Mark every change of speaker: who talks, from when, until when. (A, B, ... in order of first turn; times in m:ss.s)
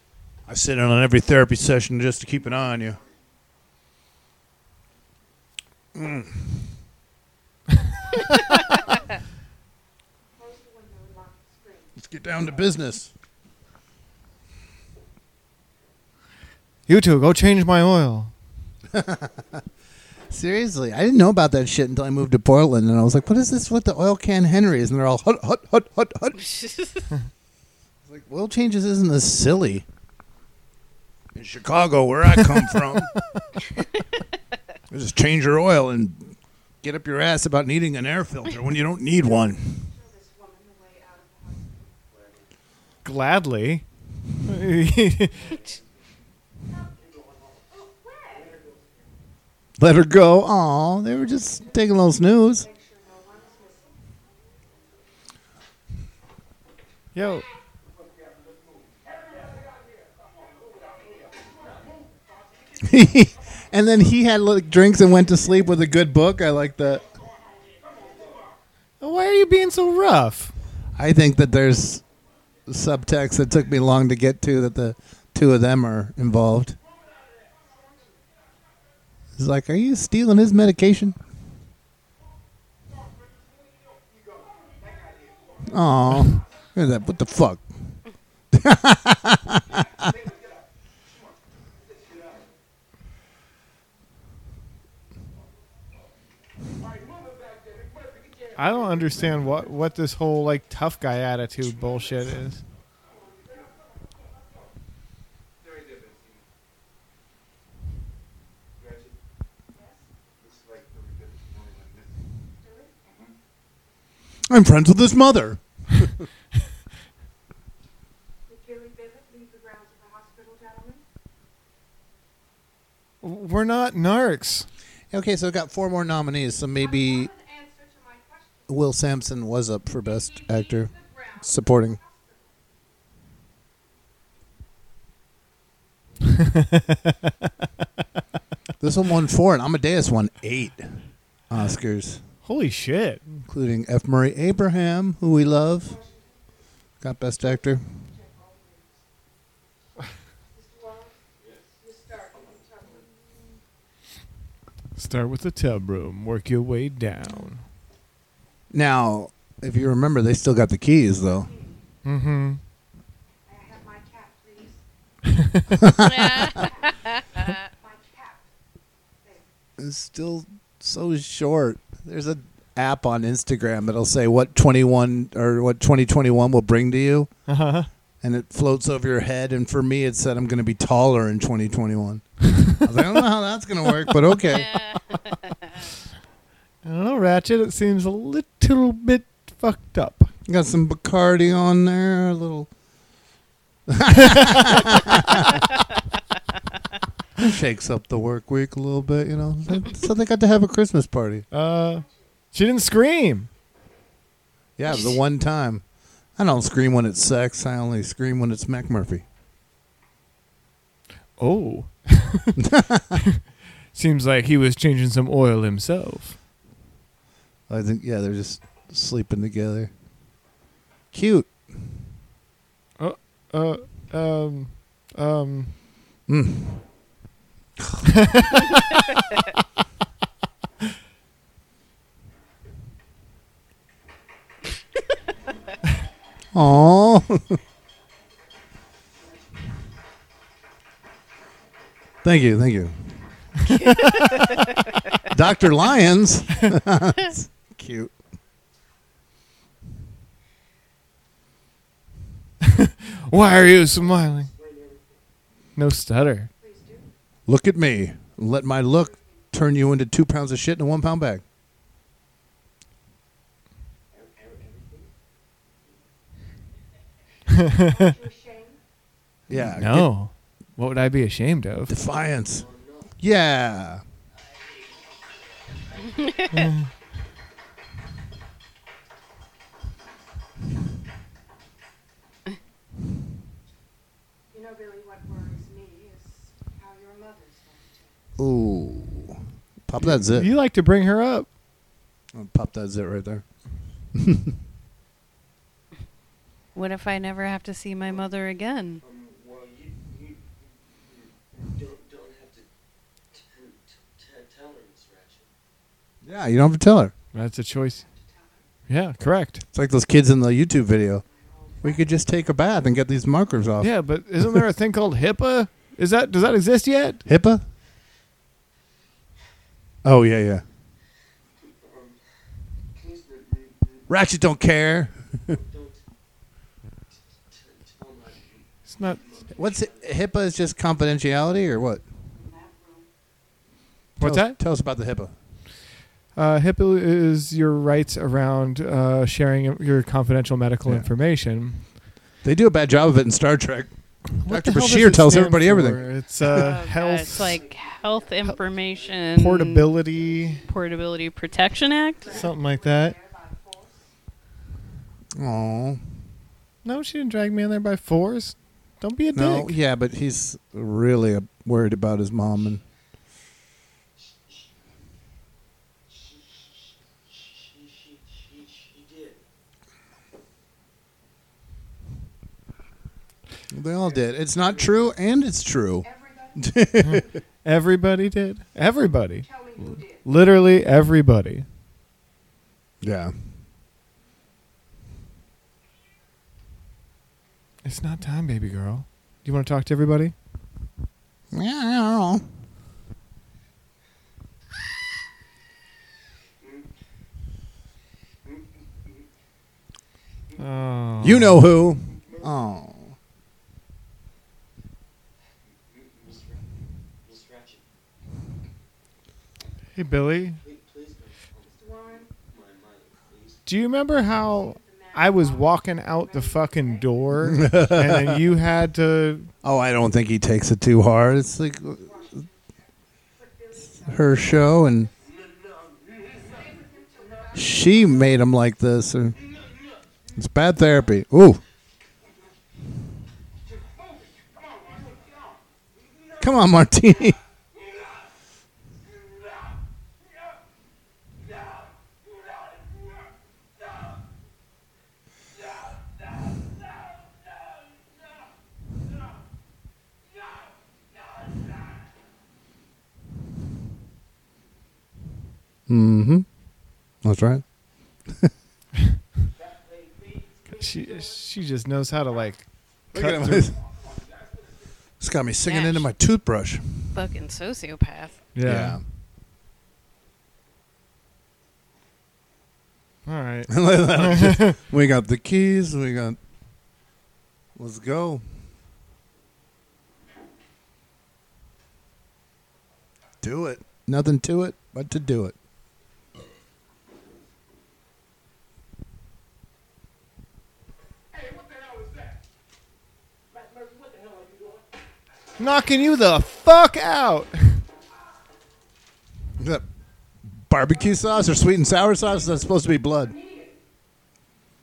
0:00.5-0:03.0 A
0:05.9-0:06.7 A
0:08.3-0:08.8 B
0:10.4-0:12.2 B
0:12.0-0:13.1 A
0:16.9-0:18.3 C
0:18.9-0:19.6 A
0:20.3-0:26.4 A
0:26.4-0:27.1 D
0:28.0-0:29.9 A
0:31.4-0:33.2 A
0:34.9-0:39.9 A
0:39.2-0:42.0 B
0:43.0-0:43.9 C
0:44.4-0:45.4 C
0:47.7-0:48.6 B
0:49.8-0:52.7 A
0:51.4-0:54.1 B
0:57.2-0:57.5 C
1:02.8-1:07.2 A
1:09.0-1:10.5 C
1:11.0-1:12.0 A
1:12.7-1:16.8 A
1:19.4-1:21.2 A
1:25.6-1:29.9 A
1:38.6-1:42.6 C
1:49.7-1:50.1 B
1:52.6-1:53.3 B
1:54.5-1:56.3 A
1:58.5-2:01.0 B
2:03.2-2:04.7 C
2:05.1-2:07.3 A
2:06.7-2:08.8 B
2:08.7-2:12.0 A
2:10.0-2:12.6 B
2:18.8-2:22.3 A
2:22.4-2:23.4 C
2:23.5-2:26.0 A
2:25.8-2:26.5 B
2:27.0-2:27.9 A
2:27.4-2:29.0 B
2:30.5-2:31.2 B
2:31.8-2:33.1 B
2:35.0-2:37.7 C
2:38.7-2:41.5 A
2:41.1-2:41.8 B
2:42.0-2:42.6 C
2:43.5-2:44.8 B
2:45.8-2:46.5 A
2:46.0-2:47.6 D
2:46.6-2:47.0 B
2:47.5-2:48.5 B
2:49.2-2:49.5 B
2:49.8-2:57.3 A
2:57.5-2:57.9 C
2:58.2-3:04.8 A
3:04.5-3:05.2 D
3:06.8-3:10.3 C
3:10.5-3:12.7 A
3:13.9-3:15.2 A
3:17.4-3:21.4 A
3:21.5-3:23.5 C
3:24.8-3:29.2 A
3:31.4-3:32.6 C
3:32.6-3:33.2 A
3:33.9-3:36.4 C
3:37.7-3:39.9 A
3:41.1-3:41.9 A
3:43.0-3:45.8 C
3:46.3-3:46.9 A
3:48.3-3:48.6 C
3:56.5-3:57.6 A
4:02.2-4:03.2 A
4:03.7-4:04.6 D
4:05.3-4:08.2 A
4:13.2-4:14.5 C
4:15.8-4:16.5 C
4:16.6-4:17.1 B
4:17.5-4:21.4 A
4:19.0-4:19.4 B
4:24.4-4:25.0 E
4:27.6-4:28.8 B
4:29.5-4:30.2 A
4:29.8-4:32.0 C
4:31.9-4:32.6 A
4:33.2-4:34.0 A
4:36.5-4:36.9 C
4:44.5-4:48.3 B
4:48.4-4:50.5 A
4:50.0-4:51.5 C
4:52.3-4:53.6 A
4:56.7-4:59.0 D
4:59.1-5:00.3 E
5:01.7-5:02.6 E
5:03.3-5:05.5 E
5:06.2-5:07.1 A
5:07.3-5:08.0 C
5:07.7-5:08.7 B
5:08.9-5:09.6 C
5:09.7-5:11.3 A
5:11.2-5:12.1 B
5:11.8-5:14.6 A
5:13.8-5:17.2 C
5:17.2-5:17.7 A
5:20.0-5:20.6 A
5:24.1-5:25.5 A
5:25.6-5:25.9 E
5:27.6-5:28.6 E
5:28.9-5:29.2 C
5:29.3-5:29.8 E
5:29.5-5:32.1 A
5:32.3-5:33.1 B
5:34.2-5:34.6 C
5:34.2-5:35.3 A
5:36.3-5:42.0 C
5:40.8-5:41.1 A
5:42.4-5:46.6 A
5:44.4-5:47.6 C
5:46.4-5:49.9 D
5:47.9-5:48.5 B
5:49.4-5:50.6 C
5:50.1-5:50.7 B
5:50.6-5:52.4 D
5:52.2-5:54.1 B
5:52.3-5:53.2 C
5:55.4-5:56.2 A
5:56.8-5:59.8 C
5:59.3-6:02.8 A
6:08.8-6:09.3 E
6:13.7-6:17.4 A
6:16.0-6:16.8 B
6:17.0-6:21.7 C
6:19.4-6:20.3 B
6:23.0-6:23.3 A
6:27.8-6:30.4 C
6:31.5-6:32.4 A
6:40.6-6:41.7 C
6:41.2-6:43.2 A
6:46.1-6:46.7 E
6:47.2-6:47.8 E
6:50.0-6:50.6 C
6:50.7-6:51.3 E
6:51.7-6:52.3 B
6:52.5-6:53.5 E
6:53.7-6:59.5 C
6:54.3-6:57.4 B
6:57.4-6:58.4 A
6:59.6-7:02.4 A
7:02.0-7:02.6 B
7:03.4-7:05.1 B
7:04.0-7:05.1 A
7:06.4-7:08.4 B
7:07.5-7:09.4 A
7:10.4-7:11.6 A
7:16.4-7:17.4 A
7:35.9-7:38.5 A
7:40.7-7:43.7 C
7:43.1-7:43.8 A
7:45.2-7:47.2 A
7:45.6-7:46.1 D
7:47.1-7:48.4 D
7:48.6-7:49.0 C
7:48.6-7:49.1 A
7:53.3-7:54.8 C
7:53.7-7:56.4 A
7:57.8-7:58.4 A
8:03.4-8:05.6 A
8:15.6-8:17.8 C
8:19.6-8:19.9 A
8:20.4-8:23.4 A